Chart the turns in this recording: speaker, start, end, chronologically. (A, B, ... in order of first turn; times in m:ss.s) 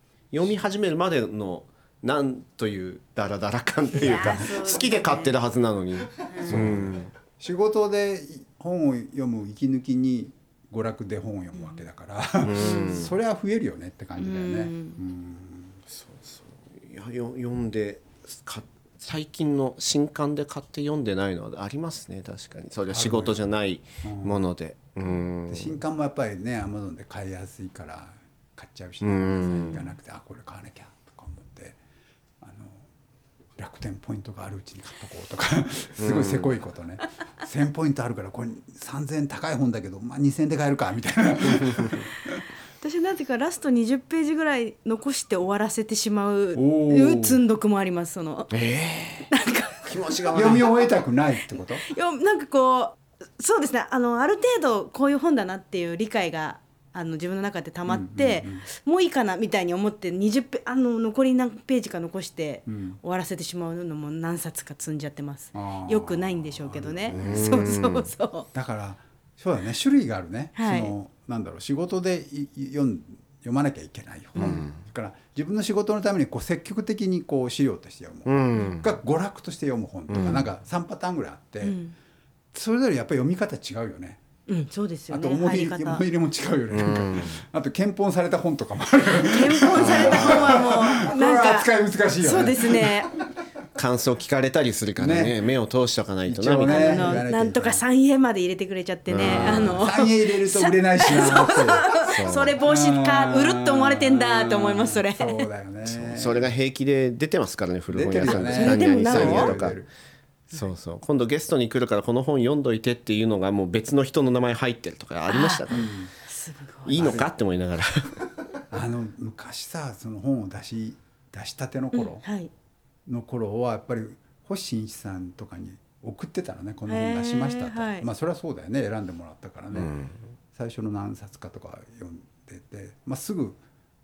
0:00.3-0:07.1 A
0:04.0-0:05.3 B
0:06.4-0:15.8 C
0:12.4-0:13.1 A
0:12.6-0:13.0 B
0:14.2-0:15.0 B
0:15.9-0:25.8 A
0:22.9-0:23.4 C
0:24.0-0:24.4 C
0:25.5-0:31.8 C
0:29.0-0:29.8 A
0:32.4-0:32.9 C
0:33.6-0:42.4 C
0:36.0-0:36.6 A
0:41.7-0:41.9 A
0:42.8-0:48.5 B
0:46.6-0:47.4 C
0:48.5-0:49.3 A
0:49.3-0:50.6 B
0:49.8-0:50.8 A
0:50.3-0:51.8 C
0:51.8-1:08.5 B
0:57.9-0:58.6 C
1:02.7-1:03.0 C
1:05.5-1:07.7 C
1:07.1-1:08.1 A
1:08.5-1:21.8 C
1:10.6-1:10.9 B
1:14.4-1:14.8 A
1:18.2-1:18.9 A
1:20.1-1:20.4 A
1:21.6-1:21.9 B
1:22.5-1:24.2 C
1:24.5-1:26.0 B
1:25.1-1:33.1 C
1:26.7-1:27.4 A
1:29.1-1:33.1 B
1:29.8-1:30.5 A
1:33.7-1:37.2 A
1:35.0-1:35.4 C
1:36.2-1:37.8 C
1:36.6-1:45.4 B
1:39.1-1:39.9 A
1:39.2-1:46.5 C
1:41.9-1:42.6 A
1:45.9-1:49.8 A
1:47.9-1:49.9 C
1:48.4-1:49.6 B
1:50.5-1:55.9 A
1:55.3-1:55.7 B
1:55.7-1:56.1 C
1:56.2-1:57.2 B
1:56.8-1:58.2 A
1:57.0-1:57.3 C
1:58.7-2:02.2 C
2:01.9-2:02.5 B
2:03.1-2:09.9 C
2:06.9-2:08.1 B
2:09.7-2:10.2 A
2:10.5-2:13.6 C